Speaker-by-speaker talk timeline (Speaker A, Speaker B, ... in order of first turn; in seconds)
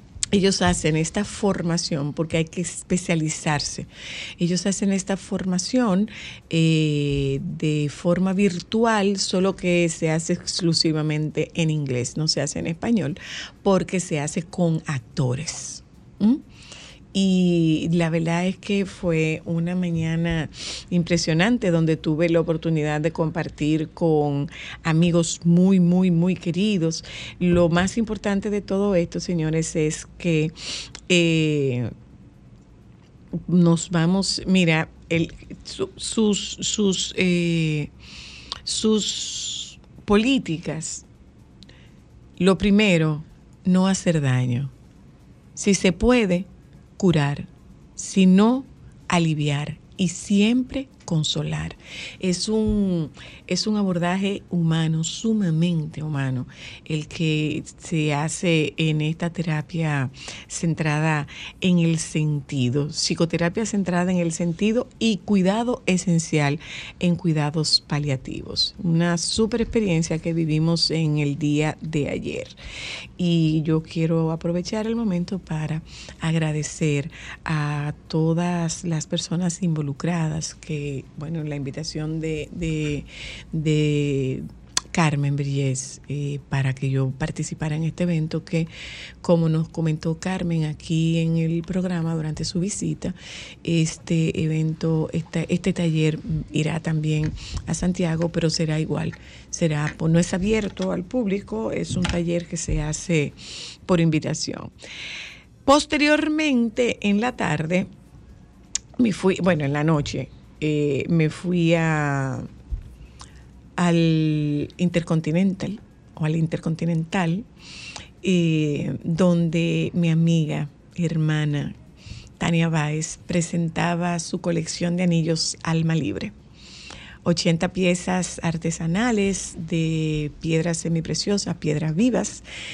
Speaker A: 0.3-16.4, 17.1-30.5, 31.1-31.9, 33.4-37.9, 38.6-41.1, 42.4-44.7, 45.6-72.6, 73.2-88.7, 89.2-104.7, 105.7-107.9, 109.0-112.5, 113.8-117.5, 118.2-121.8, 122.4-126.3, 127.2-132.4